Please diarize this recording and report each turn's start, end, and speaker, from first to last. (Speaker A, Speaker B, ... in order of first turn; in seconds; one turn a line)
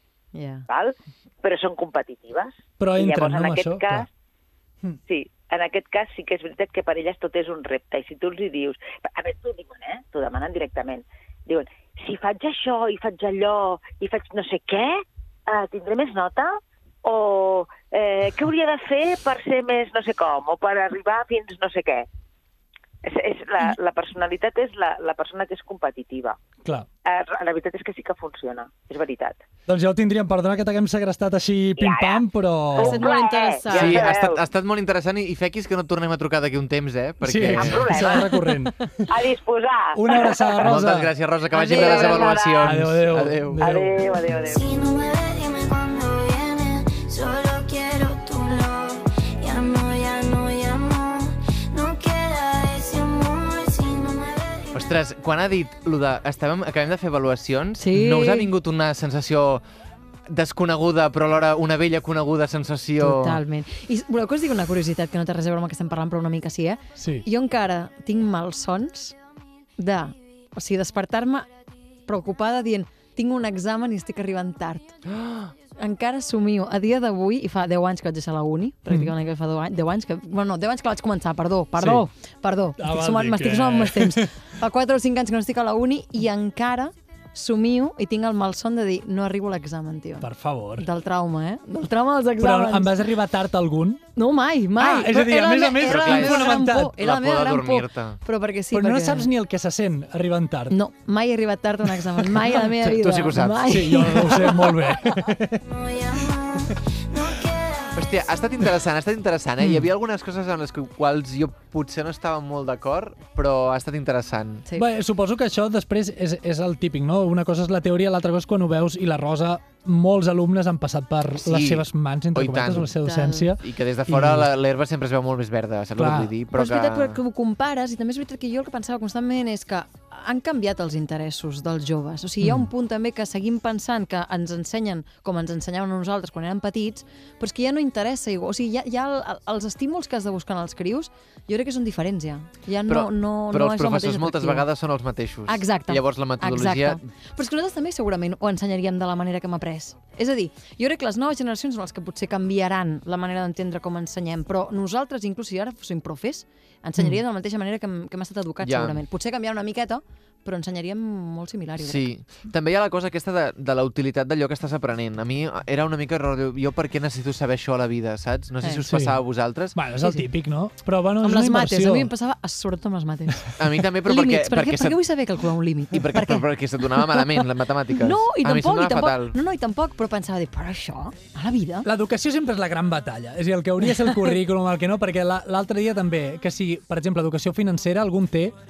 Speaker A: 0.3-0.7
Speaker B: 0.7-4.1
Speaker C: 2.8-4.1
Speaker B: 5.1-22.1
Speaker B: 23.0-26.4
Speaker B: 27.0-29.4
Speaker C: 29.7-33.0
Speaker B: 31.8-34.4
Speaker A: 32.8-34.1
Speaker D: 33.7-38.0
Speaker C: 37.2-39.1
Speaker B: 37.5-38.4
Speaker B: 39.1-40.6
Speaker C: 39.9-41.1
Speaker D: 40.6-43.6
Speaker A: 41.5-42.4
Speaker B: 41.7-42.8
Speaker C: 42.6-44.1
Speaker B: 43.6-44.7
Speaker E: 44.5-54.7
Speaker D: 54.7-59.6
Speaker A: 57.8-58.5
Speaker D: 60.3-63.4
Speaker A: 63.0-69.2
Speaker C: 67.0-67.2
Speaker A: 69.8-71.5
Speaker A: 72.0-75.0
Speaker D: 75.1-75.5
Speaker A: 75.8-93.1
Speaker C: 81.8-82.0
Speaker C: 82.8-84.3
Speaker C: 90.2-90.9
Speaker C: 92.4-94.0
Speaker A: 94.1-99.3
Speaker C: 94.8-96.9
Speaker D: 95.8-98.2
Speaker C: 98.7-100.8
Speaker A: 100.7-104.9
Speaker D: 102.6-103.8
Speaker C: 103.6-105.7
Speaker E: 105.7-107.9
Speaker D: 107.9-114.7
Speaker C: 114.8-124.5
Speaker D: 121.4-122.9
Speaker A: 123.0-123.5
Speaker D: 123.6-127.2
Speaker C: 126.0-126.3
Speaker A: 126.5-144.7
Speaker C: 132.4-132.7
Speaker D: 142.9-147.0
Speaker A: 145.5-162.1
Speaker D: 158.6-159.0
Speaker D: 161.8-169.8
Speaker C: 168.9-169.2
Speaker C: 169.7-172.1
Speaker A: 171.2-177.2
Speaker D: 173.6-175.0
Speaker D: 175.9-179.4
Speaker A: 177.9-181.9
Speaker C: 181.8-188.5